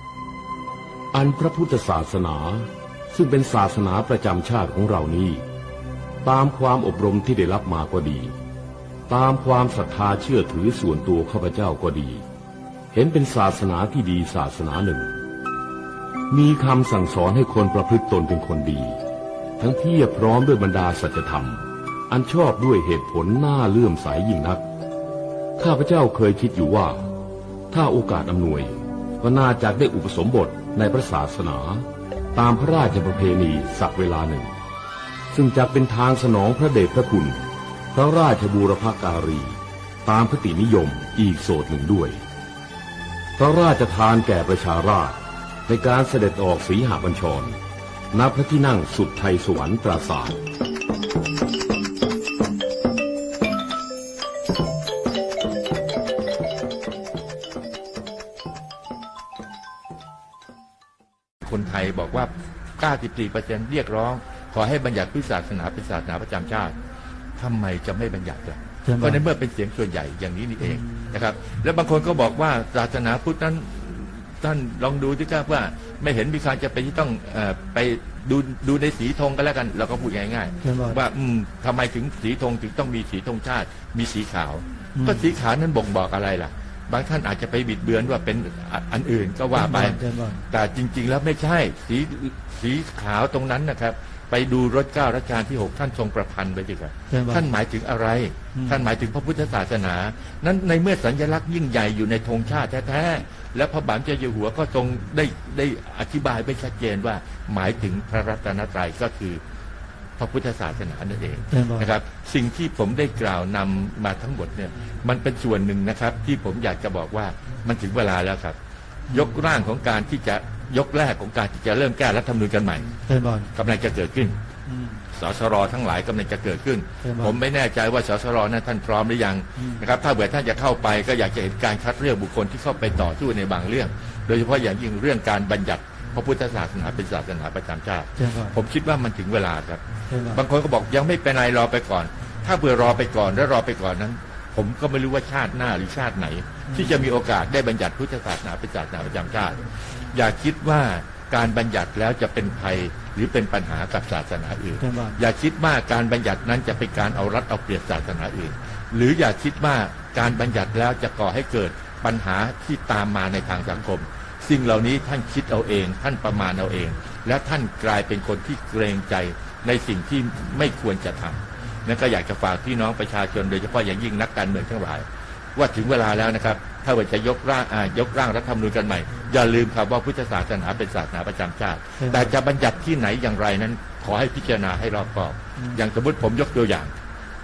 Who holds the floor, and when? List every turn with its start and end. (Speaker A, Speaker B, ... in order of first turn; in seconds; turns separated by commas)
Speaker A: 1.1-5.4, Speaker A: 6.2-8.3, Speaker A: 9.1-12.2, Speaker A: 12.9-15.1, Speaker A: 16.3-19.0, Speaker A: 19.6-24.6, Speaker A: 25.6-27.0, Speaker A: 27.7-34.5, Speaker A: 35.3-42.2, Speaker A: 43.4-47.5, Speaker A: 48.1-50.4, Speaker B: 61.4-66.7, Speaker B: 67.4-90.0, Speaker C: 68.8-69.2, Speaker C: 80.6-81.0, Speaker C: 85.0-85.2, Speaker C: 89.5-90.4, Speaker B: 90.5-109.4, Speaker C: 97.1-97.5, Speaker C: 98.5-98.9, Speaker B: 110.2-118.6, Speaker C: 111.5-111.9, Speaker B: 119.1-122.9, Speaker C: 123.0-123.5, Speaker B: 123.5-124.4, Speaker C: 124.7-125.0, Speaker B: 125.1-186.9, Speaker C: 127.0-127.4, Speaker C: 138.2-138.6, Speaker C: 140.1-140.4, Speaker C: 146.7-147.0, Speaker C: 154.8-155.2, Speaker C: 182.0-182.3